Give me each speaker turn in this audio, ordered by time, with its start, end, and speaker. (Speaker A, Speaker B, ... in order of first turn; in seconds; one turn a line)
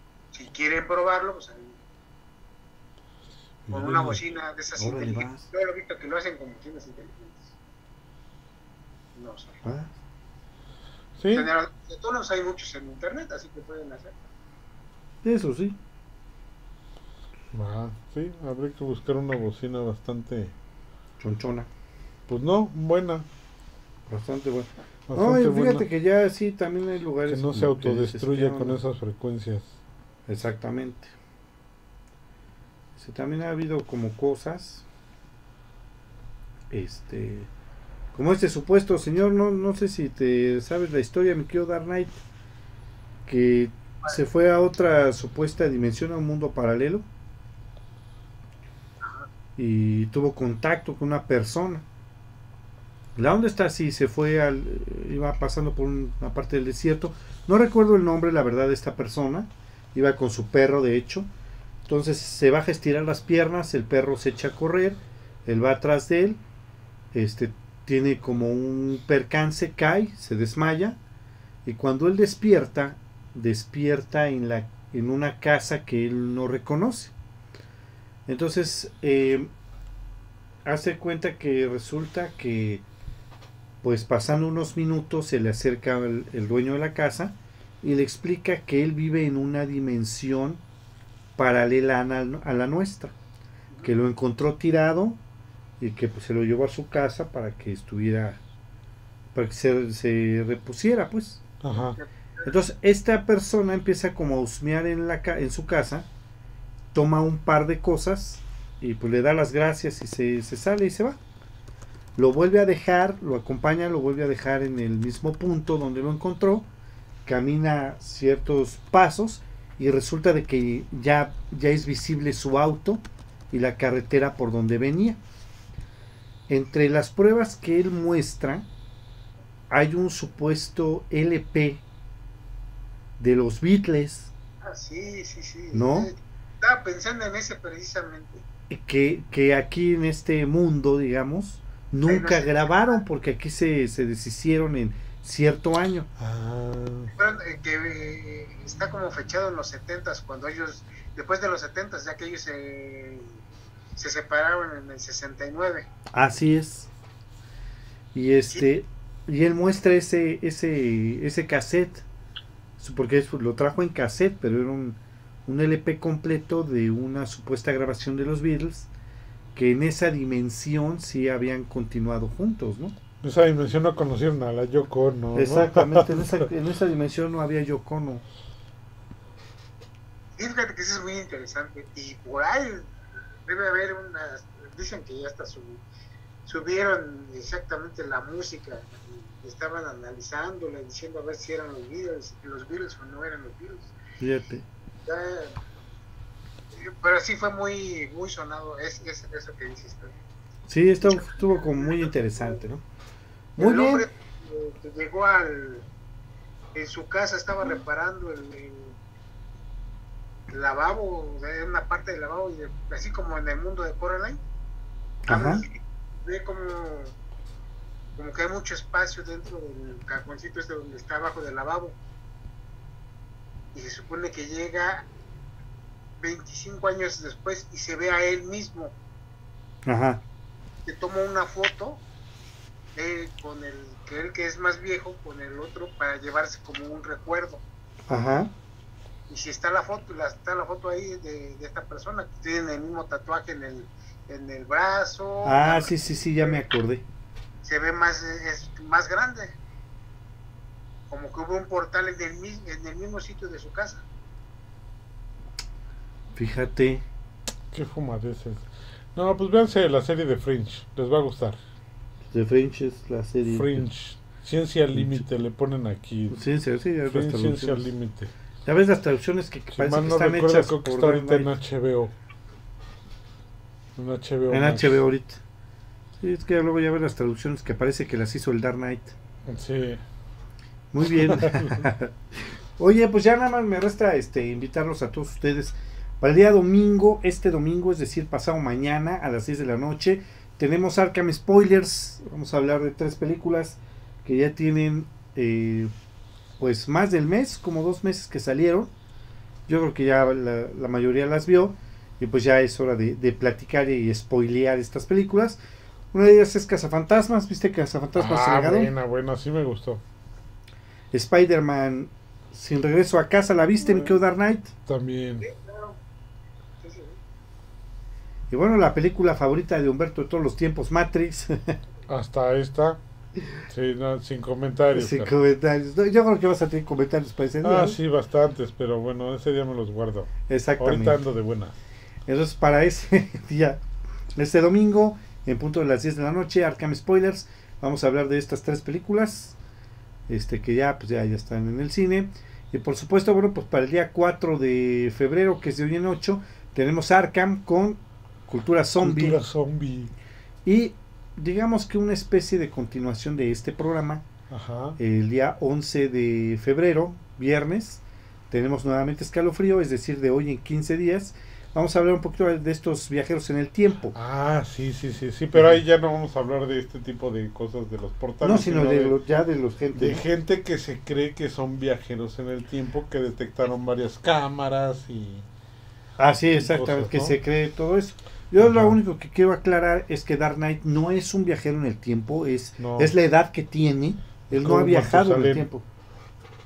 Speaker A: 0.3-1.8
Speaker B: 3.6-4.2
Speaker A: 3.7-7.5
Speaker C: 4.8-5.5
Speaker A: 9.1-9.6
Speaker C: 9.6-9.9
Speaker B: 11.2-11.5
Speaker A: 11.3-14.1
Speaker C: 15.2-15.8
Speaker B: 17.5-20.5
Speaker C: 21.2-21.7
Speaker B: 22.3-23.2
Speaker C: 24.1-28.8
Speaker B: 25.1-25.9
Speaker B: 27.3-29.7
Speaker C: 30.3-31.1
Speaker C: 33.0-34.8
Speaker C: 36.7-37.5
Speaker C: 38.1-42.2
Speaker C: 43.2-47.0
Speaker A: 49.0-49.3
Speaker C: 49.5-51.8
Speaker C: 53.1-61.3
Speaker C: 61.9-66.4
Speaker C: 67.1-71.0
Speaker C: 71.6-77.1
Speaker C: 78.3-79.5
Speaker C: 80.6-82.8
Speaker C: 83.8-90.6
Speaker C: 91.3-93.1
Speaker C: 93.8-95.2
Speaker C: 95.8-98.4
Speaker C: 99.3-101.4
Speaker B: 101.6-102.0
Speaker A: 102.0-102.5
Speaker C: 102.4-106.1
Speaker C: 106.9-111.2
Speaker C: 112.2-116.7
Speaker C: 117.2-125.2
Speaker C: 126.5-128.7
Speaker C: 129.7-131.8
Speaker C: 133.2-134.3
Speaker A: 134.6-138.4
Speaker C: 135.7-136.1
Speaker C: 138.7-146.1
Speaker A: 142.1-143.0
Speaker B: 146.2-147.1
Speaker A: 147.1-153.4
Speaker A: 153.9-155.9
Speaker C: 156.1-156.9
Speaker C: 158.1-162.0
Speaker C: 162.8-168.9
Speaker C: 169.5-172.9
Speaker B: 173.2-176.4
Speaker C: 175.3-178.2
Speaker A: 180.4-182.9
Speaker A: 183.4-185.8
Speaker A: 186.4-193.9
Speaker C: 194.2-194.7
Speaker A: 195.1-195.6
Speaker A: 196.8-200.1
Speaker C: 200.7-202.8
Speaker A: 201.0-202.5
Speaker C: 203.6-204.1
Speaker A: 203.6-205.8
Speaker A: 206.7-208.9
Speaker A: 210.5-214.4
Speaker C: 215.3-215.6
Speaker A: 215.3-217.1
Speaker A: 218.2-221.9
Speaker A: 223.7-225.1
Speaker A: 226.2-228.9
Speaker C: 229.8-230.2
Speaker A: 230.8-232.0
Speaker A: 232.9-237.6
Speaker C: 238.1-238.5
Speaker A: 239.3-246.6
Speaker C: 245.4-247.0
Speaker A: 247.6-249.6
Speaker A: 251.1-254.0
Speaker C: 256.3-257.0
Speaker B: 257.7-258.6
Speaker B: 259.1-261.6
Speaker C: 262.3-263.9
Speaker B: 263.5-266.4
Speaker C: 264.9-265.2
Speaker C: 266.3-267.9
Speaker B: 267.0-268.3
Speaker C: 268.6-271.5
Speaker B: 269.8-272.1
Speaker B: 273.9-275.0
Speaker C: 274.5-275.4
Speaker C: 276.2-279.1
Speaker B: 279.5-280.0
Speaker C: 280.9-295.9
Speaker B: 281.2-281.8
Speaker C: 296.6-298.9
Speaker C: 299.7-305.6
Speaker C: 306.1-308.9
Speaker B: 308.1-310.0
Speaker C: 311.1-314.7
Speaker B: 314.9-315.4
Speaker A: 315.4-316.0
Speaker A: 316.8-317.2
Speaker C: 318.5-321.8
Speaker B: 322.1-323.0
Speaker B: 323.7-325.3
Speaker C: 324.9-328.0
Speaker B: 327.6-331.7
Speaker C: 330.5-331.2
Speaker C: 332.3-333.8
Speaker C: 334.3-339.6
Speaker C: 340.3-349.4
Speaker B: 349.0-350.1
Speaker C: 350.6-354.2
Speaker B: 354.5-355.0
Speaker C: 355.0-364.1
Speaker B: 364.1-369.1
Speaker C: 368.4-370.2
Speaker B: 369.9-375.4
Speaker C: 376.2-385.9
Speaker B: 376.5-377.4
Speaker B: 378.6-379.0
Speaker B: 382.8-383.1
Speaker B: 384.5-385.7